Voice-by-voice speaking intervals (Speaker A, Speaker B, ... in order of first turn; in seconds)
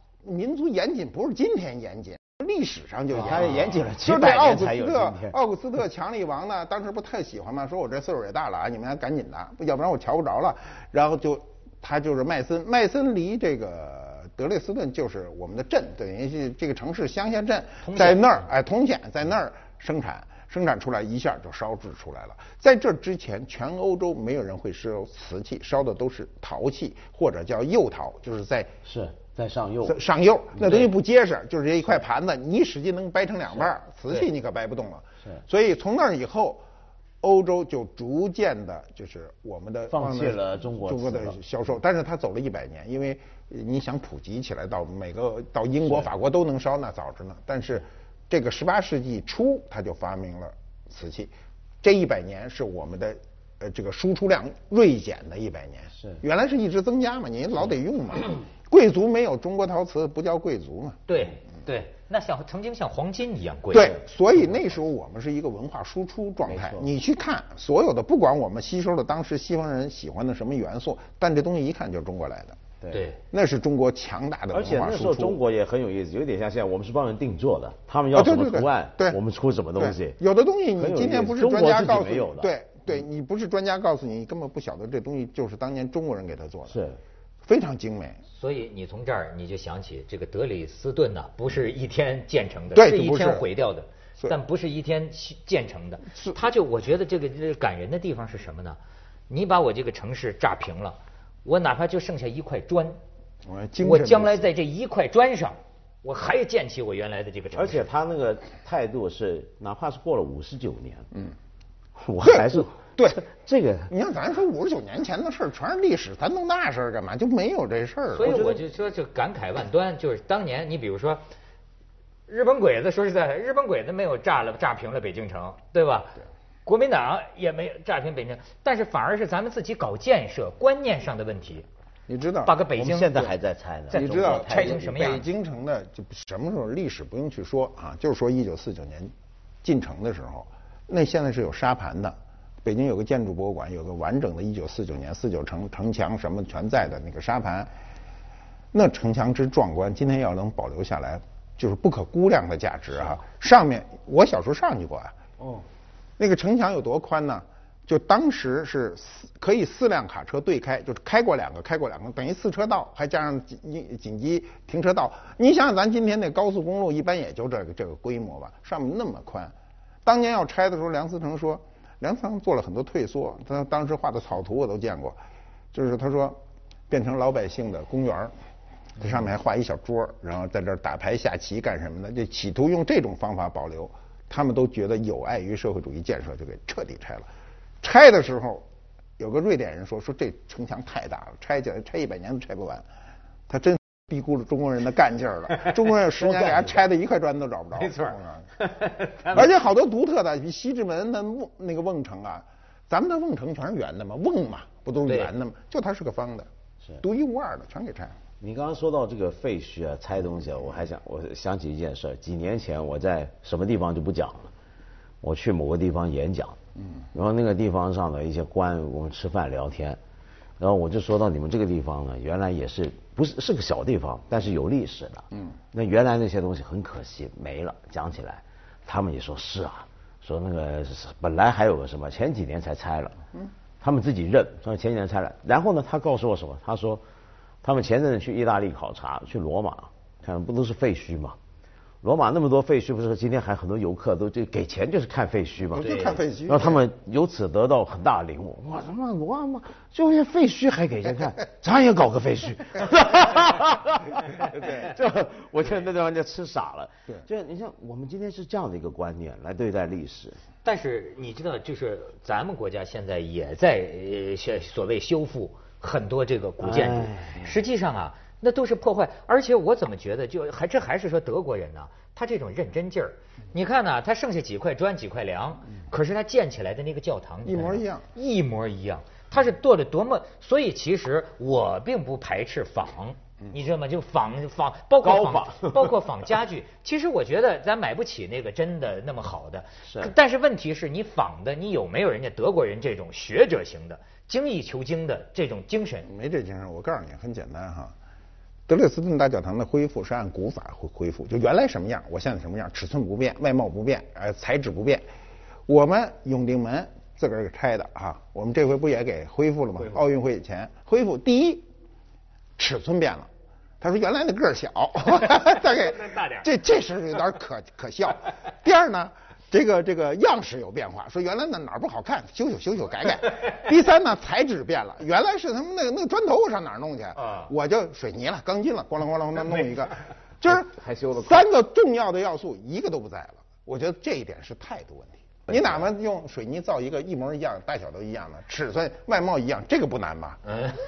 Speaker A: 0.2-28.7, 29.9-36.6, 37.2-61.0, 63.7-72.6, 73.3-75.4, 78.1-79.2, 79.8-86.8, 87.4-88.2, 92.7-93.5, 103.5-104.5, 112.2-113.2, 113.9-118.4, 132.1-132.6, 133.9-147.7, 148.7-155.2, 156.2-175.2, 175.7-176.4, 176.9-178.3, 179.0-187.3, 187.8-188.7, 189.2-192.9, 193.5-198.5, 199.3-206.5, 207.0-208.2, 245.7-246.8, 254.3-255.0, 277.4-278.1, 296.1-297.9, 298.7-305.0, 305.7-311.7, 312.6-313.3, 313.8-340.4
Speaker B: 3.1-3.7, 17.8-18.4, 61.1-64.0, 72.9-73.2, 88.3-98.8, 99.3-103.0, 103.8-107.9, 118.2-121.2, 122.3-131.7, 132.4-133.3, 133.9-135.3, 197.8-199.5, 205.1-205.3, 245.8-246.2, 260.6-296.1, 315.7-316.4, 327.2-327.5, 340.5-340.8
Speaker C: 3.1-5.3, 28.9-30.0, 30.6-30.9, 39.9-41.4, 66.5-66.9, 74.5-80.2, 80.8-82.5, 86.7-87.0, 107.5-111.1, 112.0-113.9, 118.2-118.6, 132.8-135.3, 155.4-155.7, 196.0-196.9, 208.4-214.5, 215.2-216.6, 217.1-220.0, 220.6-233.2, 233.8-237.0, 237.6-241.4, 242.0-260.4, 266.6-267.6, 285.0-286.0, 289.9-290.1, 330.4-331.5, 335.5-335.9